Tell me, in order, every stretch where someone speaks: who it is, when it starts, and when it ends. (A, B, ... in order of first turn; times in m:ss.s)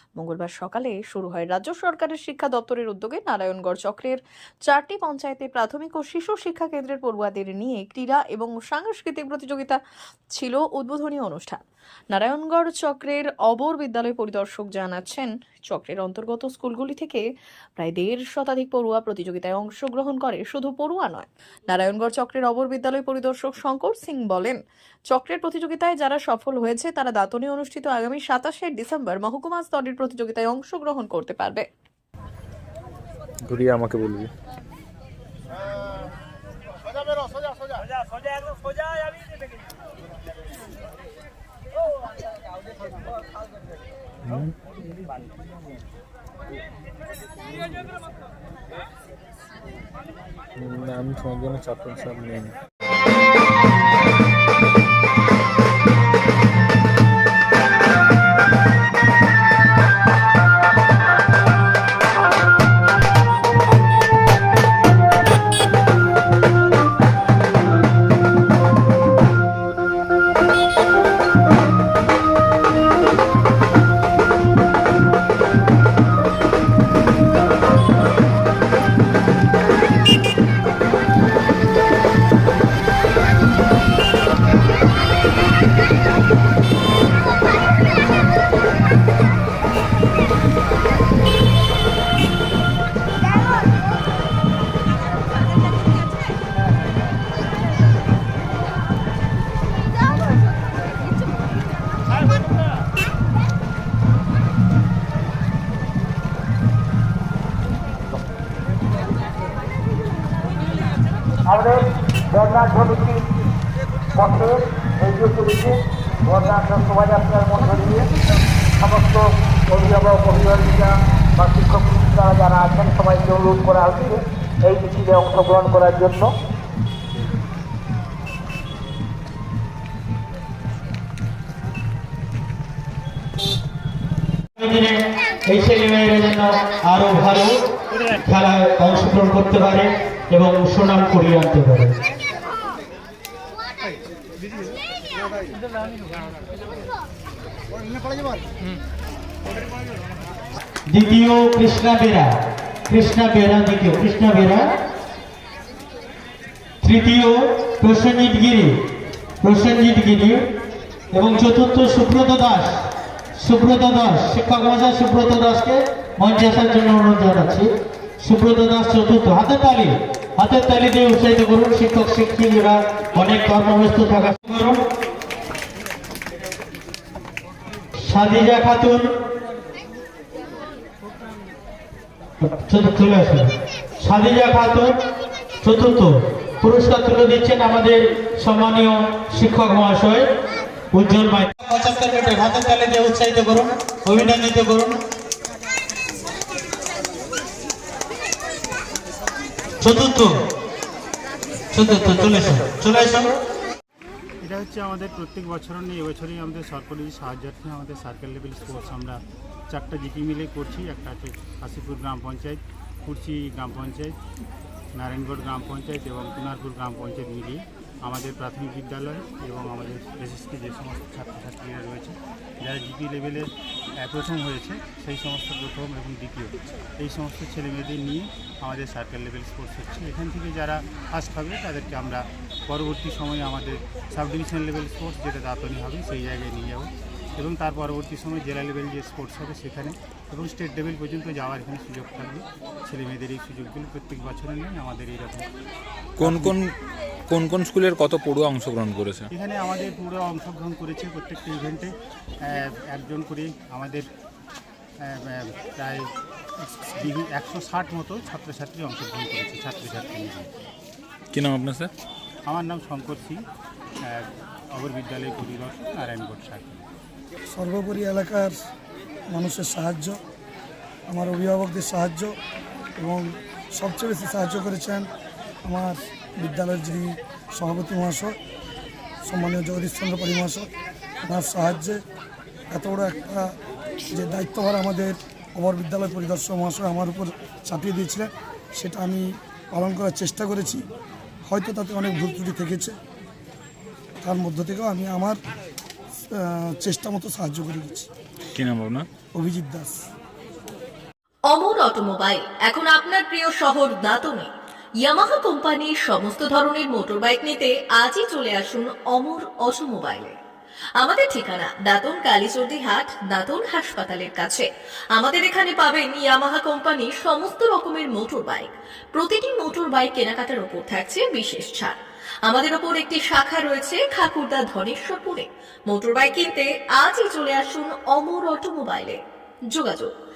0:00.2-0:09.8 A
0:10.4-0:17.2 A
0:17.8-0:24.6 A
0:25.1-0:31.7 A
0:33.5-0:34.3 B
0:44.2-0:44.6 B
0:50.6-0:52.6 B
1:51.5-1:53.3 C
1:54.1-1:58.1 C
1:58.8-2:06.3 C
2:14.6-2:17.6 D
2:18.1-2:22.0 D
2:30.9-2:32.3 D
2:32.9-2:34.7 D
2:36.8-2:38.8 D
2:39.4-2:40.4 D
2:41.1-2:42.8 D
2:43.4-2:47.7 D
2:48.2-2:54.8 D
2:58.0-2:59.1 D
3:02.4-3:05.0 D
3:05.6-3:10.2 D
3:10.9-3:15.0 D
3:19.8-3:20.3 D
3:21.7-3:23.3 D
3:24.4-3:34.2 E
3:35.0-3:43.5 E
3:44.0-4:05.5 E
4:06.2-4:06.7 B
4:06.2-4:06.5 E
4:07.3-4:09.3 B
4:09.3-4:14.1 E
4:15.0-4:20.5 E
4:21.3-4:21.9 B
4:22.5-4:23.4 E
4:24.1-4:26.9 E
4:27.5-4:28.6 F
4:29.3-4:30.2 F
4:31.1-4:32.3 F
4:33.0-4:35.1 F
4:35.6-4:38.4 F
4:39.2-4:40.7 F
4:41.2-4:42.0 F
4:42.7-4:43.5 F
4:44.1-4:50.8 F
4:51.5-4:52.9 F
4:54.2-4:55.4 F
4:56.3-4:58.1 F
4:58.6-4:59.1 B
4:59.4-5:00.0 F
5:01.5-5:04.5 A
5:05.0-5:10.4 A
5:11.0-5:30.1 A